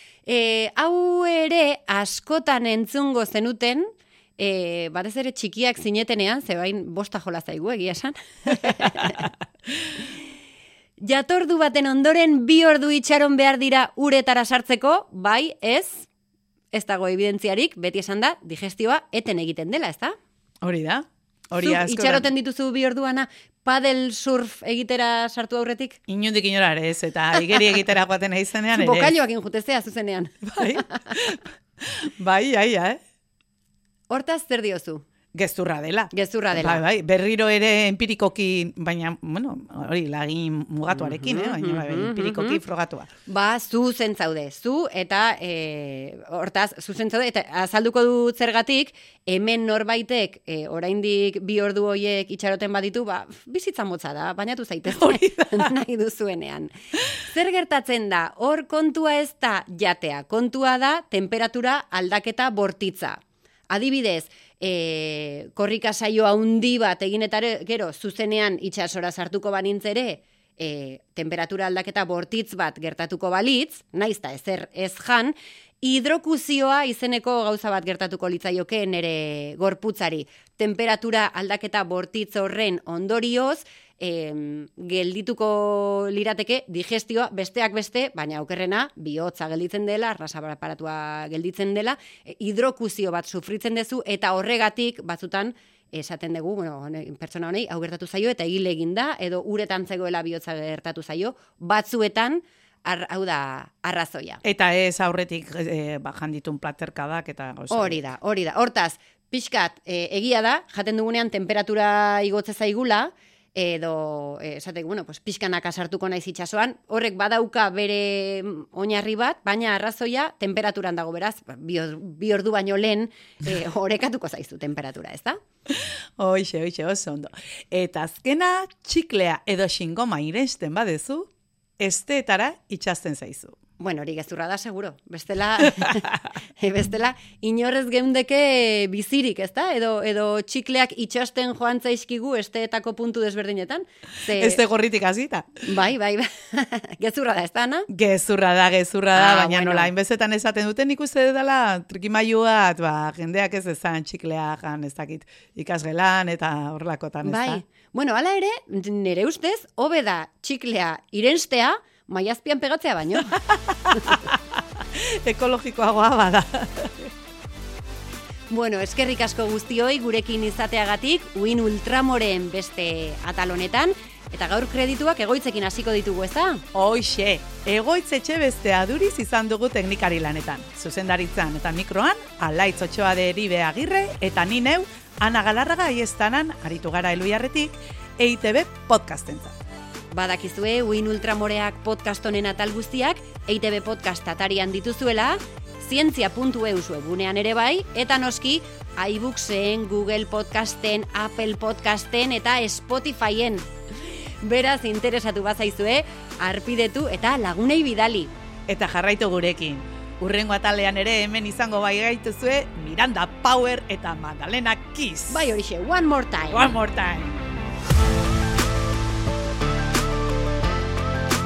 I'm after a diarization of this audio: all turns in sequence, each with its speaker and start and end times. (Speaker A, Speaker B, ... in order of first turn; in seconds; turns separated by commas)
Speaker A: 0.3-9.3, Speaker A: 11.0-16.1, Speaker A: 16.7-20.2, Speaker B: 20.6-22.3, Speaker A: 21.6-26.0, Speaker B: 26.1-29.1, Speaker A: 28.7-31.0, Speaker B: 30.4-33.0, Speaker A: 34.1-35.0, Speaker B: 35.3-43.1, Speaker A: 36.1-36.8, Speaker A: 40.9-42.6, Speaker A: 43.3-104.4, Speaker B: 54.9-55.7, Speaker B: 104.4-108.0, Speaker A: 107.7-125.4, Speaker B: 125.7-133.6, Speaker A: 133.8-144.6, Speaker B: 144.3-145.7, Speaker A: 145.7-147.9, Speaker B: 147.9-157.6, Speaker A: 149.1-149.9, Speaker A: 157.2-163.4, Speaker B: 163.3-167.1, Speaker A: 168.5-176.6, Speaker B: 176.7-189.6, Speaker A: 190.1-203.7, Speaker A: 204.4-208.3, Speaker B: 208.7-215.5, Speaker A: 215.3-216.7, Speaker B: 216.5-217.4